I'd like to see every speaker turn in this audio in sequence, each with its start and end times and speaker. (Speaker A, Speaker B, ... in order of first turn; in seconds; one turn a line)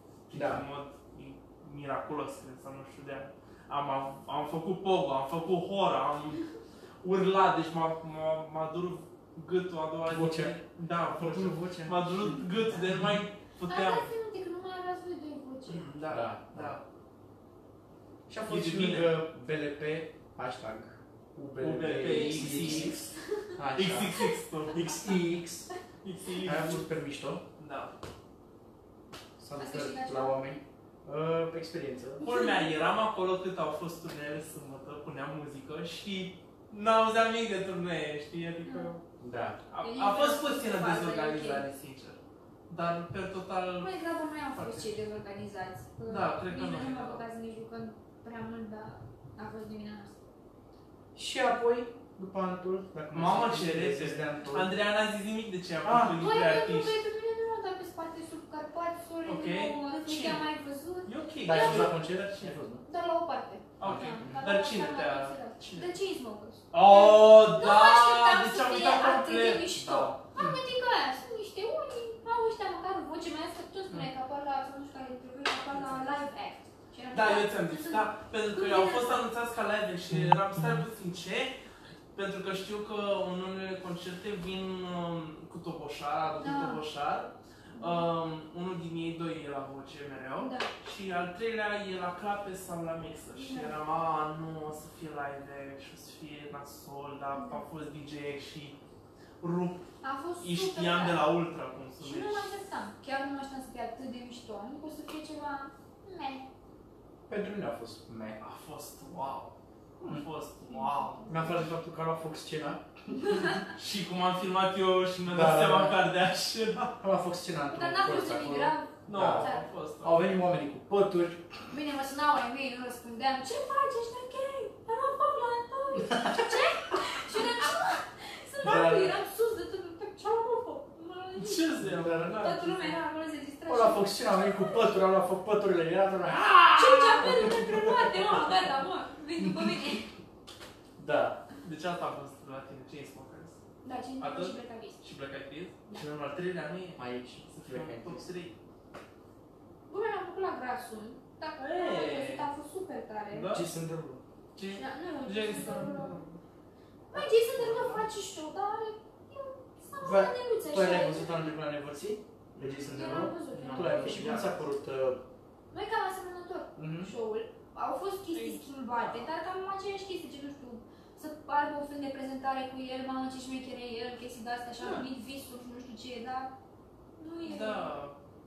Speaker A: 0.3-6.5
Speaker B: 0.3-0.6
Speaker A: 7.0-14.1
Speaker B: 10.1-10.6
Speaker B: 11.1-13.0
Speaker C: 13.7-15.9
Speaker A: 15.7-16.8
Speaker B: 16.1-16.8
Speaker B: 18.3-23.0
Speaker A: 18.5-19.1
Speaker A: 21.6-23.1
Speaker C: 22.0-23.5
Speaker B: 23.6-25.7
Speaker A: 23.7-25.1
Speaker A: 26.0-26.9
Speaker B: 26.4-27.4
Speaker A: 27.6-28.0
Speaker B: 29.4-32.2
Speaker C: 29.6-30.4
Speaker A: 32.2-39.0
Speaker C: 32.2-32.7
Speaker C: 38.6-38.9
Speaker B: 39.2-39.6
Speaker A: 39.7-43.9
Speaker C: 39.8-41.7
Speaker C: 43.8-50.2
Speaker A: 44.5-44.9
Speaker A: 46.1-47.2
Speaker B: 51.1-54.7
Speaker A: 53.1-57.0
Speaker B: 55.8-56.2
Speaker C: 56.2-61.9
Speaker A: 59.3-60.5
Speaker A: 61.0-62.6
Speaker B: 61.4-62.8
Speaker C: 62.9-79.2
Speaker A: 63.8-66.0
Speaker B: 63.8-64.5
Speaker A: 66.7-70.2
Speaker A: 75.7-76.2
Speaker A: 77.1-81.5
Speaker A: 82.1-98.8
Speaker C: 86.4-86.8
Speaker C: 87.8-88.0
Speaker C: 90.4-90.7
Speaker C: 93.3-93.8
Speaker C: 97.3-97.6
Speaker A: 99.4-102.5
Speaker C: 100.0-101.3
Speaker C: 102.0-106.5
Speaker B: 107.3-108.4
Speaker A: 108.4-111.3
Speaker C: 110.7-111.6
Speaker B: 111.3-113.4
Speaker C: 113.2-113.6
Speaker A: 113.7-117.0
Speaker B: 115.3-116.0
Speaker B: 117.0-121.6
Speaker C: 117.7-119.7
Speaker A: 119.1-120.2
Speaker C: 121.7-131.7
Speaker B: 126.0-126.6
Speaker B: 128.6-129.2
Speaker A: 131.4-132.8
Speaker B: 131.8-132.9
Speaker C: 132.4-134.8
Speaker B: 133.7-138.2
Speaker A: 136.4-137.5
Speaker C: 136.7-140.1
Speaker B: 139.4-140.0
Speaker B: 141.0-141.4
Speaker A: 141.6-143.6
Speaker C: 143.8-145.0
Speaker A: 144.2-148.6
Speaker B: 147.0-148.2
Speaker C: 149.9-153.5
Speaker A: 151.6-152.5
Speaker A: 153.3-153.7
Speaker B: 153.5-154.2
Speaker A: 154.6-156.4
Speaker C: 154.7-156.2
Speaker C: 157.1-161.3
Speaker A: 157.6-158.0
Speaker B: 160.0-165.2
Speaker A: 162.6-164.6
Speaker C: 162.9-164.4
Speaker C: 165.7-176.5
Speaker B: 166.8-167.1
Speaker A: 168.3-169.3
Speaker C: 177.2-177.9
Speaker A: 177.4-178.1